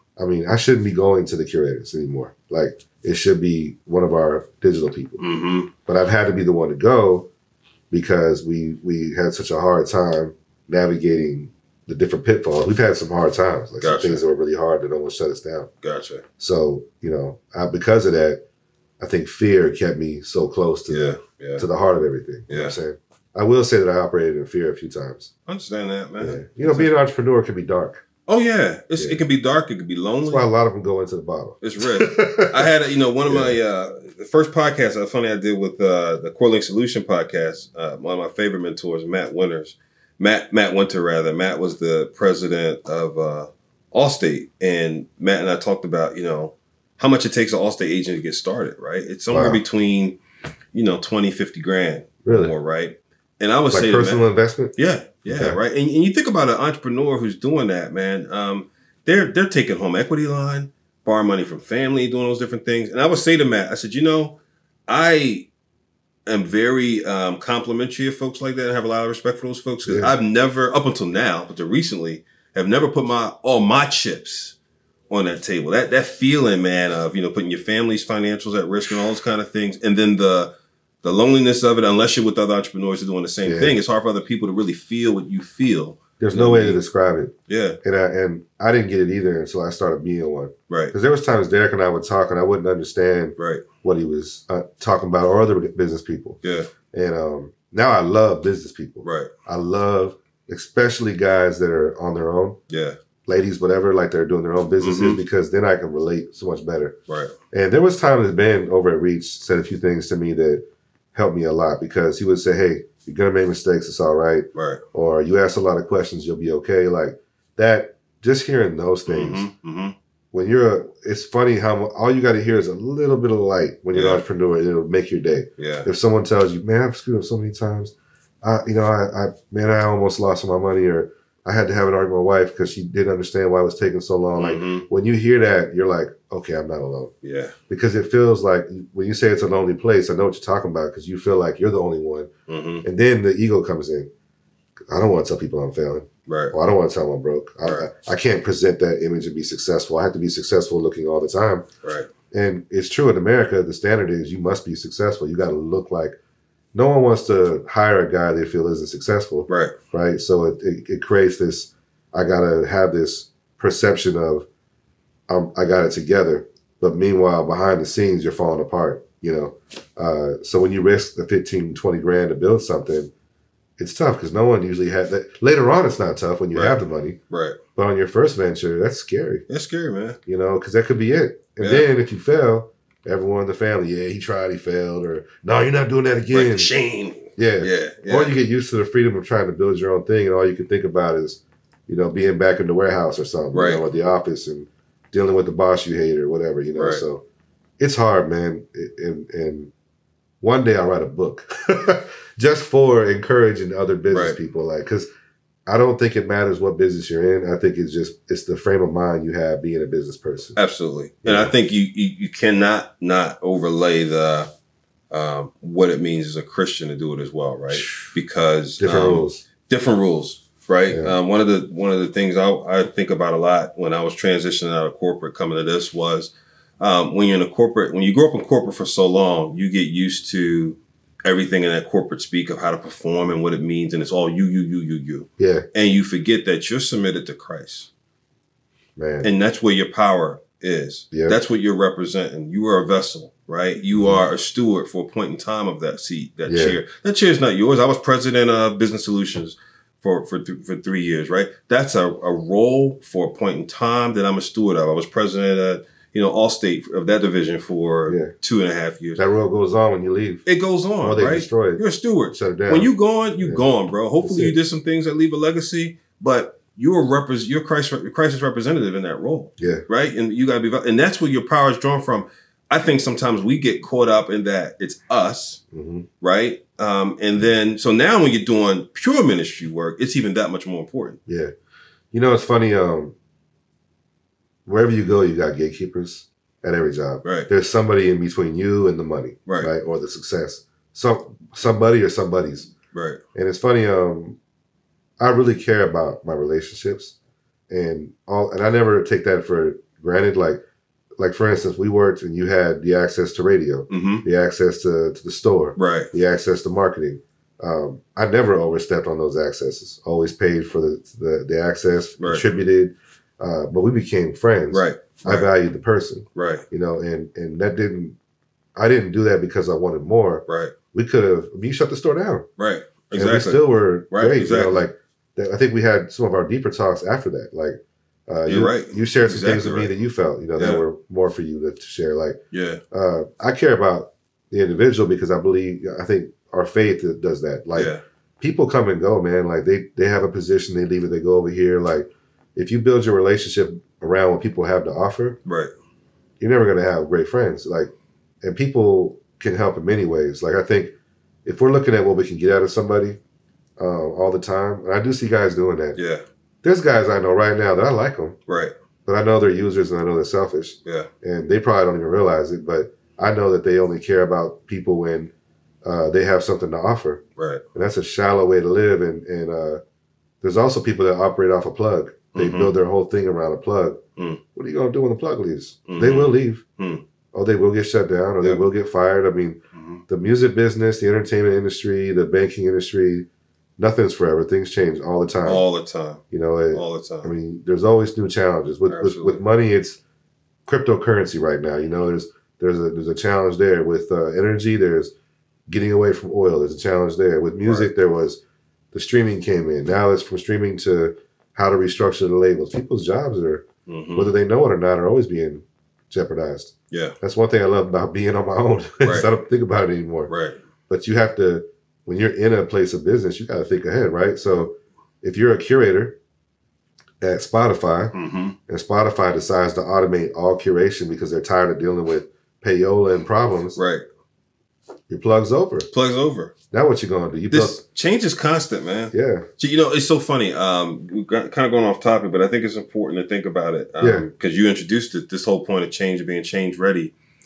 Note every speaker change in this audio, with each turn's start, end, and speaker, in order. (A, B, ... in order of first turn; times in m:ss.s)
0:00.2-0:05.2 A
0:05.2-0:05.7 B
0:05.9-0:07.3 A
0:07.9-0:15.7 A
0:13.8-0:14.2 B
0:15.8-0:16.2 B
0:16.4-0:18.4 A
0:19.0-0:25.3 A
0:20.9-0:21.6 B
0:22.5-0:22.8 B
0:25.5-0:26.9 B
0:26.2-0:28.0 A
0:28.3-0:30.5 B
0:29.0-0:29.2 A
0:30.2-0:32.7 A
0:31.6-0:50.2 B
0:33.3-0:33.6 A
0:49.3-0:49.6 A
0:50.7-0:54.2 B
0:52.2-0:52.5 A
0:53.7-0:54.7 A
0:54.8-1:04.4 B
0:55.3-0:55.6 A
1:04.9-1:05.5 B
1:06.2-1:14.6 B
1:09.8-1:10.1 A
1:15.1-1:20.5 B
1:21.0-1:26.8 B
1:23.4-1:23.8 A
1:26.2-1:36.4 A
1:27.5-1:27.8 B
1:33.4-1:33.7 B
1:36.4-1:36.7 B
1:36.9-1:42.6 A
1:39.0-1:39.3 B
1:42.7-1:43.0 B
1:43.2-1:47.0 A
1:44.8-1:45.2 B
1:47.1-1:47.3 B
1:47.5-1:59.4 A
1:54.5-1:54.8 B
1:59.1-1:59.9 B
2:00.3-2:17.1 A
2:03.9-2:04.2 B
2:05.6-2:05.9 B
2:14.4-2:14.8 B
2:17.2-2:17.6 B
2:17.7-2:22.3 A
2:22.5-2:22.8 B
2:22.8-2:24.1 A
2:24.9-2:31.6 A
2:26.3-2:26.5 B
2:31.8-2:32.1 B
2:32.3-2:36.2 A
2:36.7-2:44.4 A
2:39.5-2:39.8 B
2:45.3-2:53.1 A
2:53.8-2:57.2 A
2:57.3-2:57.6 B
2:57.8-2:59.4 A
2:59.5-3:00.2 B
3:00.2-3:06.7 A
3:01.6-3:01.9 B
3:06.3-3:08.4 B
3:07.4-3:17.2 A
3:13.5-3:13.8 B
3:16.7-3:17.0 B
3:17.8-3:19.7 A
3:20.4-3:25.1 A
3:24.1-3:24.4 B
3:25.7-3:30.6 A
3:30.6-3:34.5 B
3:31.2-3:31.5 A
3:35.1-3:57.9 B
3:38.8-3:39.4 A
3:40.9-3:41.1 A
3:55.4-3:55.6 A
3:59.0-3:59.3 A
3:59.2-4:19.2 B
4:01.1-4:01.4 A
4:03.9-4:04.2 A
4:06.5-4:06.8 A
4:18.1-4:18.3 A
4:19.2-4:20.4 A
4:20.4-4:35.6 B
4:21.0-4:23.6 A
4:24.2-4:24.6 A
4:29.6-4:29.8 A
4:35.7-4:36.1 A
4:36.2-4:41.2 B
4:41.3-4:41.5 A
4:42.1-4:43.1 A
4:44.6-4:52.7 A
4:47.2-4:47.5 B
4:52.9-4:53.2 B
4:53.3-4:54.4 A
4:55.2-4:57.1 A
4:57.7-5:00.6 A
5:01.2-5:18.2 A
5:03.9-5:04.2 B
5:05.8-5:06.1 B
5:12.2-5:12.4 B
5:14.7-5:15.5 B
5:16.3-5:16.6 B
5:18.8-5:22.5 A
5:20.5-5:20.7 B
5:22.6-5:24.8 B
5:23.1-5:32.4 A
5:28.5-5:29.9 B
5:30.6-5:30.8 B
5:32.5-5:32.8 B
5:32.9-5:45.4 A
5:37.7-5:38.0 B
5:45.4-5:45.7 B
5:46.4-5:47.9 A
5:48.4-5:50.9 A
5:51.4-5:53.2 A
5:53.8-5:56.0 A
5:56.0-5:56.2 B
5:56.6-5:58.4 A
5:58.5-5:58.7 B
5:59.0-6:05.3 A
6:05.8-6:07.2 A
6:07.4-6:07.6 B
6:07.7-6:09.8 A
6:10.4-6:14.0 A
6:12.3-6:12.7 B
6:14.5-6:16.6 A
6:15.9-6:17.0 B
6:17.3-6:23.2 A
6:19.7-6:20.0 B
6:23.8-6:25.6 A
6:25.4-6:27.3 B
6:26.3-6:30.0 A
6:28.9-6:29.4 B
6:30.6-6:35.1 A
6:35.7-6:38.4 A
6:38.9-6:50.3 A
6:43.9-6:44.3 B
6:49.0-6:49.3 B
6:50.3-6:50.6 B
6:50.9-6:56.2 A
6:57.2-6:58.1 A
6:58.1-6:58.6 B
6:58.7-7:03.8 A
7:03.8-7:04.0 B
7:05.1-7:05.9 A
7:05.9-7:06.5 B
7:06.7-7:07.8 A
7:07.5-7:17.1 B
7:09.1-7:09.4 A
7:14.0-7:14.3 A